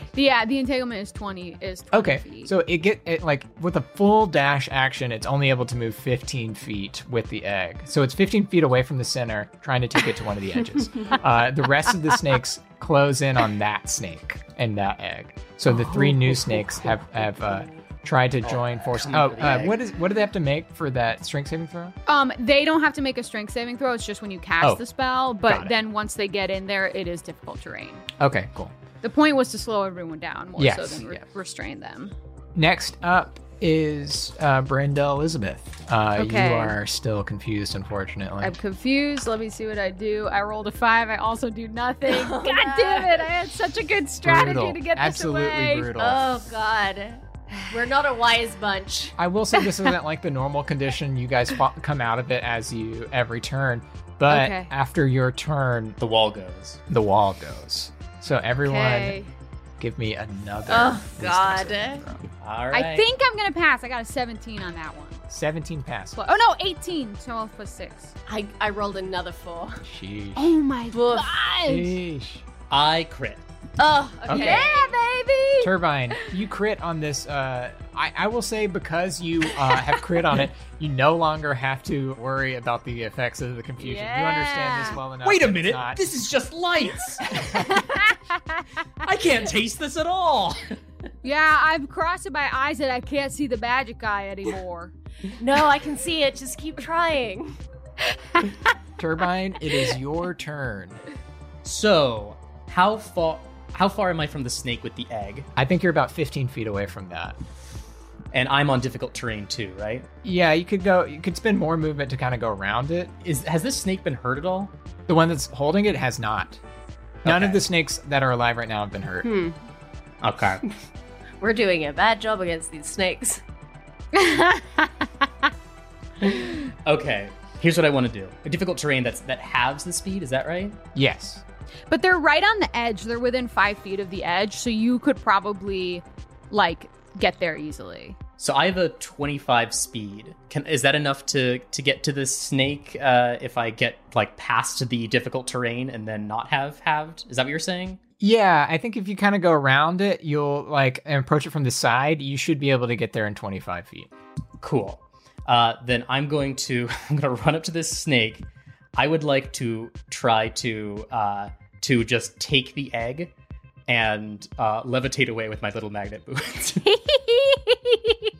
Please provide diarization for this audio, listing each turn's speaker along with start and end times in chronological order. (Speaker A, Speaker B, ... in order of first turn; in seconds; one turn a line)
Speaker A: 0.1-2.5
Speaker B: 1.9-21.9
Speaker C: 18.4-19.8
Speaker A: 22.1-28.1
Speaker B: 25.4-25.7
Speaker B: 28.2-28.7
Speaker A: 29.0-32.1
Speaker B: 30.6-31.2
Speaker B: 32.5-38.5
Speaker A: 36.2-36.8
Speaker A: 38.4-45.9
Speaker D: 42.1-43.3
Speaker B: 44.2-46.5
Speaker D: 46.0-49.2
Speaker B: 49.2-56.0
Speaker A: 54.3-54.7
Speaker C: 56.0-56.8
Speaker B: 56.9-59.2
Speaker A: 58.6-59.3
Speaker B: 59.8-62.2
Speaker D: 60.7-62.0
Speaker C: 62.4-63.1
Speaker A: 62.7-65.2
Speaker B: 65.3-66.2
Speaker A: 66.2-68.1
Speaker D: 68.3-69.8
Speaker B: 69.8-70.6
Speaker A: 70.4-72.0
Speaker D: 70.9-71.3
Speaker B: 71.6-72.4
Speaker C: 72.7-73.4
Speaker D: 73.8-74.9
Speaker B: 74.3-74.6
Speaker A: 74.3-76.2
Speaker B: 75.6-86.1
Speaker A: 83.8-85.0
Speaker C: 85.2-87.8
Speaker A: 87.6-88.2
Speaker C: 89.0-90.8
Speaker A: 91.2-94.9
Speaker D: 95.4-97.5
Speaker B: 99.0-101.0
Speaker C: 101.7-105.5
Speaker B: 105.6-107.4
Speaker C: 108.3-110.1
Speaker B: 110.2-113.1
Speaker C: 113.2-114.7
Speaker B: 115.1-116.6
Speaker C: 117.2-117.6
Speaker B: 117.2-119.3
Speaker D: 119.2-119.6
Speaker C: 120.2-120.6
Speaker D: 121.4-123.4
Speaker A: 124.2-125.1
Speaker C: 126.3-130.8
Speaker B: 130.9-131.4
Speaker A: 131.9-138.2
Speaker C: 138.4-148.0
Speaker B: 148.2-154.1
Speaker C: 154.6-163.3
Speaker C: 163.9-166.9
Speaker A: 166.9-168.2